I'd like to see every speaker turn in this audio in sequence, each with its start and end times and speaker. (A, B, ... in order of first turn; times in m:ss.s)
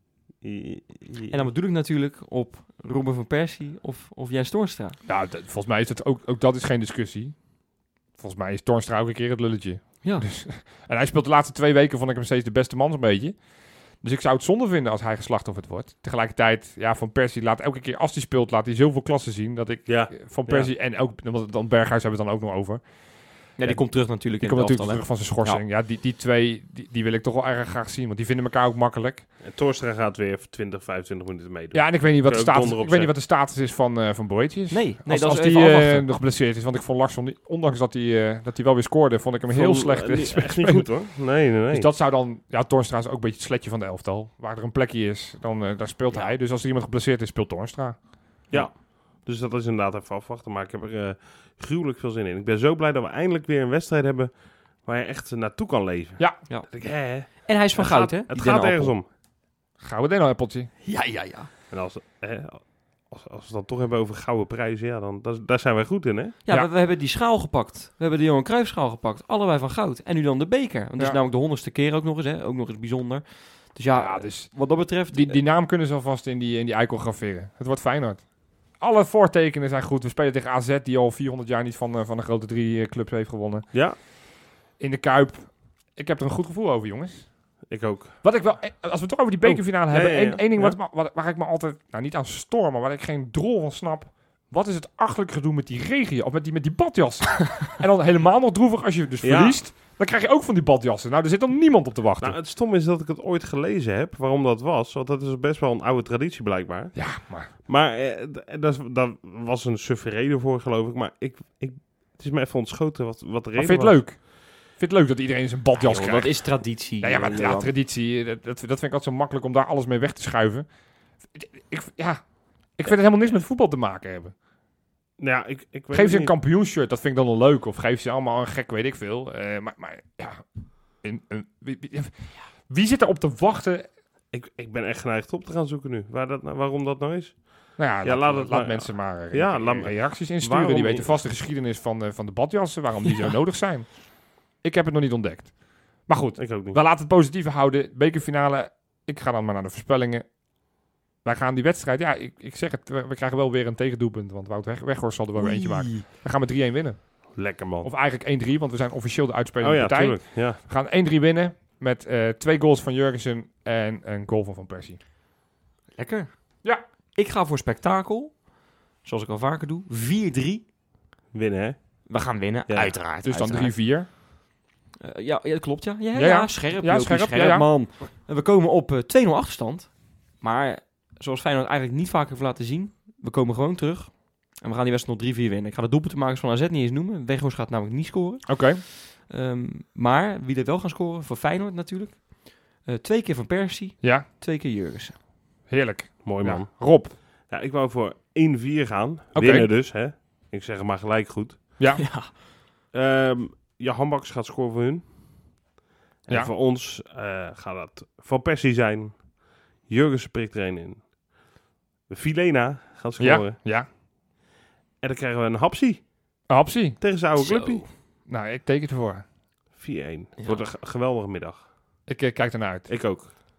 0:00.4-0:01.3 A
0:01.3-0:05.0 B
0:05.0-0:29.3 C
0:19.9-0:20.7 A
0:23.6-0:25.6 B
0:29.4-0:33.1 A
0:31.7-0:48.7 C
0:34.7-0:36.1 B
0:39.5-0:41.9 A
0:48.5-0:59.1 A
0:56.2-0:56.4 C
0:56.5-0:59.0 B
0:59.8-1:00.7 C
1:00.8-1:01.5 B
1:01.7-1:06.4 A
1:06.4-1:15.4 B
1:13.9-1:24.1 C
1:24.8-1:27.6 C
1:27.7-1:28.6 A
1:28.2-1:42.4 C
1:29.4-1:30.8 A
1:39.2-1:39.6 A
1:42.2-1:54.0 A
1:47.0-1:47.5 C
1:53.6-2:04.4 C
1:55.8-1:57.7 B
2:05.2-2:06.3 A
2:05.9-2:13.9 C
2:14.3-2:21.2 A
2:17.8-2:30.6 C
2:26.4-2:26.8 A
2:31.2-2:45.0 C
2:35.4-2:36.0 B
2:37.3-2:37.9 A
2:39.6-2:40.6 A
2:45.9-2:50.7 B
2:51.3-2:52.9 A
2:52.1-2:53.8 B
2:53.2-2:54.1 C
2:55.0-3:15.2 B
2:56.2-2:57.7 C
3:08.5-3:08.8 C
3:14.0-3:14.3 C
3:15.7-3:17.2 C
3:16.2-3:21.8 A
3:19.4-3:19.7 C
3:21.8-3:22.0 C
3:22.0-3:22.3 B
3:22.9-3:25.5 A
3:26.3-3:31.2 A
3:26.3-3:26.5 C
3:32.1-3:33.6 A
3:33.2-3:33.9 C
3:35.0-3:36.4 A
3:36.5-3:37.0 C
3:37.0-3:37.9 A
3:37.4-3:37.9 B
3:38.2-3:39.3 C
3:39.7-3:41.7 A
3:40.4-3:40.7 B
3:42.1-3:43.0 C
3:42.9-3:43.4 A